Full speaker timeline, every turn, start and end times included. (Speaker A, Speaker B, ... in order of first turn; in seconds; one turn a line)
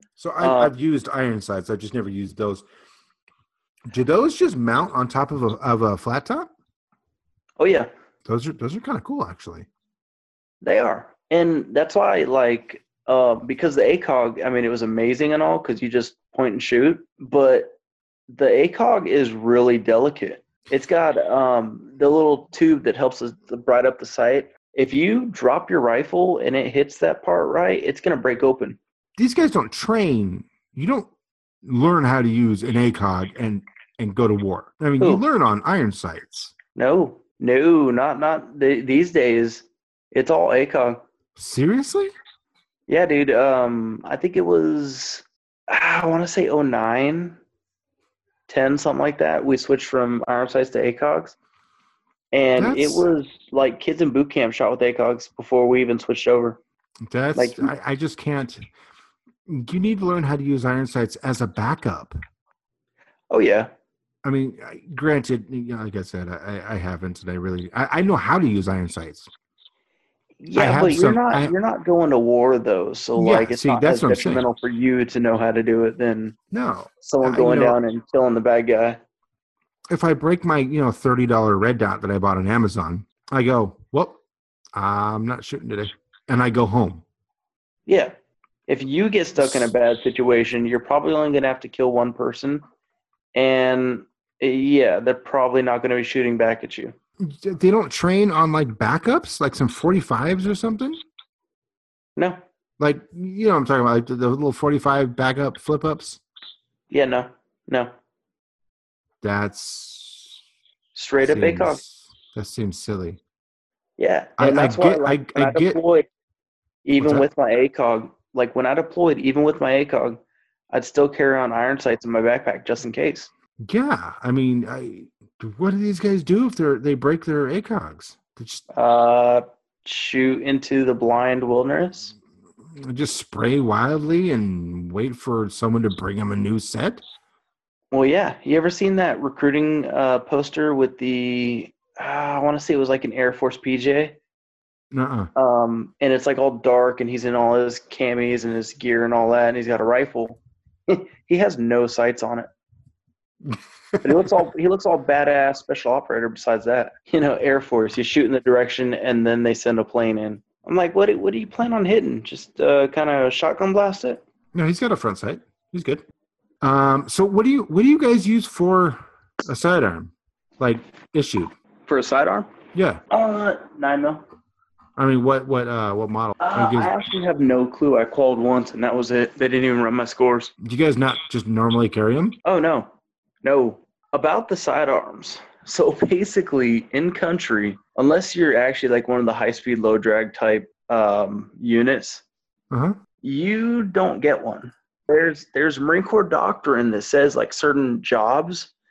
Speaker A: 0.2-2.6
Speaker B: 0.4-0.7
Speaker A: 3.9-6.5
Speaker B: 7.6-7.9
Speaker A: 8.2-9.7
Speaker B: 10.6-17.7
Speaker B: 18.3-28.8
Speaker A: 29.2-31.1
Speaker A: 31.6-36.5
Speaker B: 36.7-41.0
Speaker A: 41.4-42.1
Speaker B: 42.9-47.4
Speaker B: 48.5-51.4
Speaker B: 52.3-56.6
Speaker A: 52.6-53.1
Speaker A: 57.0-58.6
Speaker B: 57.4-57.7
Speaker A: 59.5-62.2
Speaker B: 63.3-63.7
Speaker A: 64.2-69.3
Speaker B: 70.4-76.4
Speaker A: 70.5-71.5
Speaker A: 73.2-74.5
Speaker A: 76.5-77.8
Speaker B: 77.0-79.0
Speaker A: 79.9-84.2
Speaker A: 84.7-87.0
Speaker B: 87.9-88.1
Speaker B: 88.7-92.6
Speaker A: 89.4-89.7
Speaker B: 93.3-96.9
Speaker A: 97.2-101.0
Speaker A: 102.8-106.2
Speaker B: 106.9-107.9
Speaker A: 109.2-110.4
Speaker B: 110.9-111.8
Speaker A: 111.2-113.2
Speaker B: 114.0-116.0
Speaker A: 114.4-115.8
Speaker B: 116.8-120.2
Speaker A: 117.0-117.3
Speaker B: 120.7-123.3
Speaker A: 123.6-128.7
Speaker B: 128.7-132.1
Speaker A: 132.7-137.0
Speaker B: 137.9-144.2
Speaker A: 144.9-145.3
Speaker B: 145.3-152.5
Speaker A: 153.5-154.2
Speaker B: 154.0-164.2
Speaker A: 164.5-166.0
Speaker A: 166.6-171.5
Speaker B: 171.9-172.5
Speaker A: 172.7-173.0
Speaker B: 173.1-174.2
Speaker A: 175.0-176.9
Speaker B: 176.4-180.5
Speaker A: 180.6-182.4
Speaker B: 182.4-182.9
Speaker B: 183.4-192.2
Speaker A: 192.7-193.0
Speaker B: 193.2-198.7